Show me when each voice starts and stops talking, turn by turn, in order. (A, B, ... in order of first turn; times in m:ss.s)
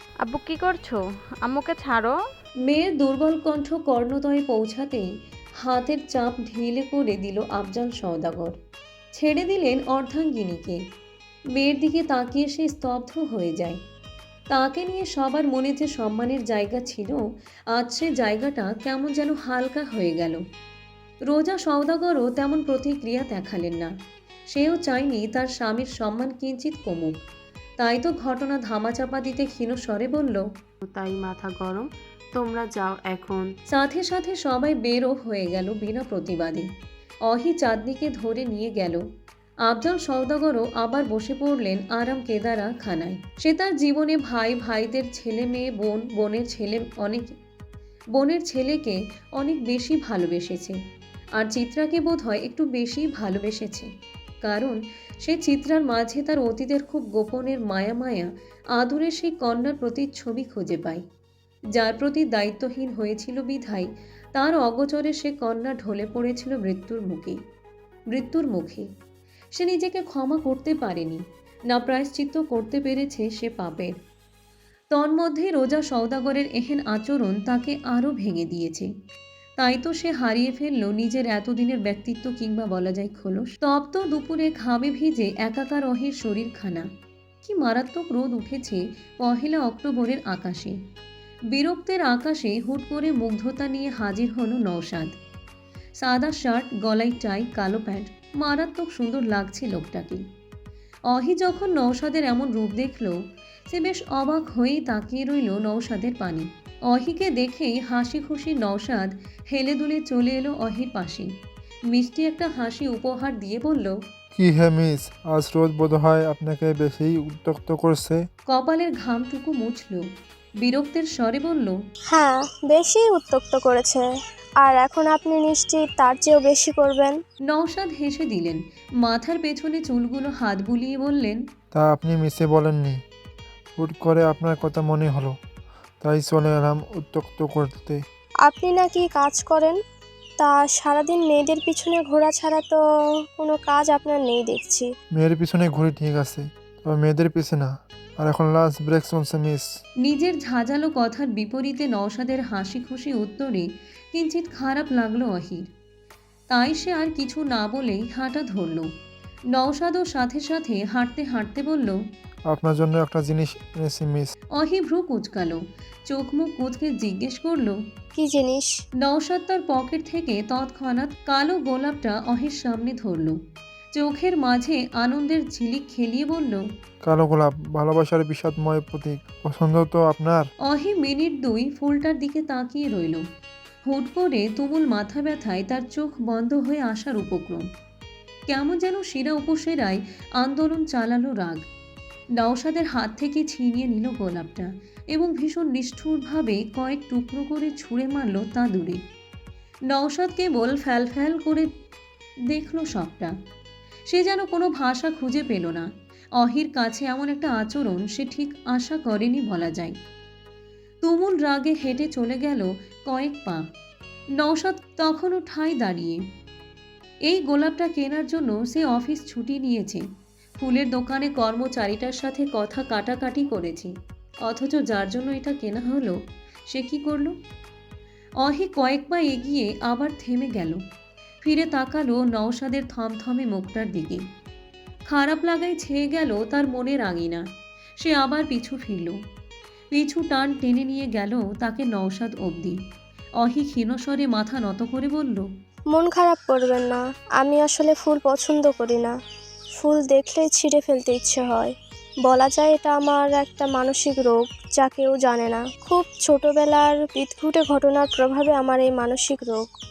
0:00.2-0:02.2 A
0:02.6-0:05.1 B
0:05.6-0:08.5 B
0:09.1-0:10.8 B
0:11.5-0:13.8 B
0:14.5-0:20.4 B
0:21.3-0:23.9 B
0:24.5-0:27.2 B
0:27.8-0:30.5 B
0:30.8-0:33.5 C
0:33.7-0:36.7 B
0:37.3-0:39.0 B
0:39.6-0:47.4 B
0:48.1-0:50.8 B
0:51.4-0:53.9 B
0:54.4-1:01.0 B
1:01.8-1:07.4 B
1:08.1-1:08.9 B
1:09.5-1:13.9 B
1:14.9-1:18.9 B
1:19.6-1:26.9 B
1:27.4-1:30.8 B
1:31.5-1:35.1 B
1:36.0-1:40.2 B
1:41.1-1:51.3 B
1:51.9-1:54.0 B
1:54.3-1:58.2 D
1:58.5-2:00.0 B
2:00.6-2:01.8 B
2:02.1-2:04.0 E
2:04.6-2:07.2 E
2:07.5-2:11.4 B
2:11.7-2:13.0 D
2:13.8-2:15.3 D
2:16.0-2:18.0 D
2:18.4-2:19.8 E
2:20.4-2:22.8 E
2:23.4-2:24.9 E
2:25.1-2:29.6 D
2:30.0-2:35.7 B
2:36.5-2:38.9 B
2:39.5-2:42.0 B
2:42.5-2:44.3 D
2:44.6-2:47.8 B
2:48.2-2:48.8 E
2:49.0-2:53.4 B
2:53.9-2:56.6 B
2:57.0-3:00.4 D
3:00.6-3:03.2 B
3:03.8-3:07.6 B
3:08.5-3:11.6 B
3:12.4-3:19.0 B
3:19.9-3:21.7 B
3:22.5-3:23.3 B
3:24.1-3:30.0 B
3:31.0-3:33.6 B
3:34.4-3:36.2 B
3:37.2-3:40.0 B
3:40.6-3:43.9 B
3:44.4-3:46.2 B
3:46.7-3:47.3 B
3:48.4-3:50.8 B
3:51.4-3:54.2 B
3:55.1-3:57.4 B
3:58.0-3:59.2 B
3:59.9-4:02.8 B
4:03.4-4:05.5 B
4:05.9-4:09.1 E
4:09.8-4:19.7 E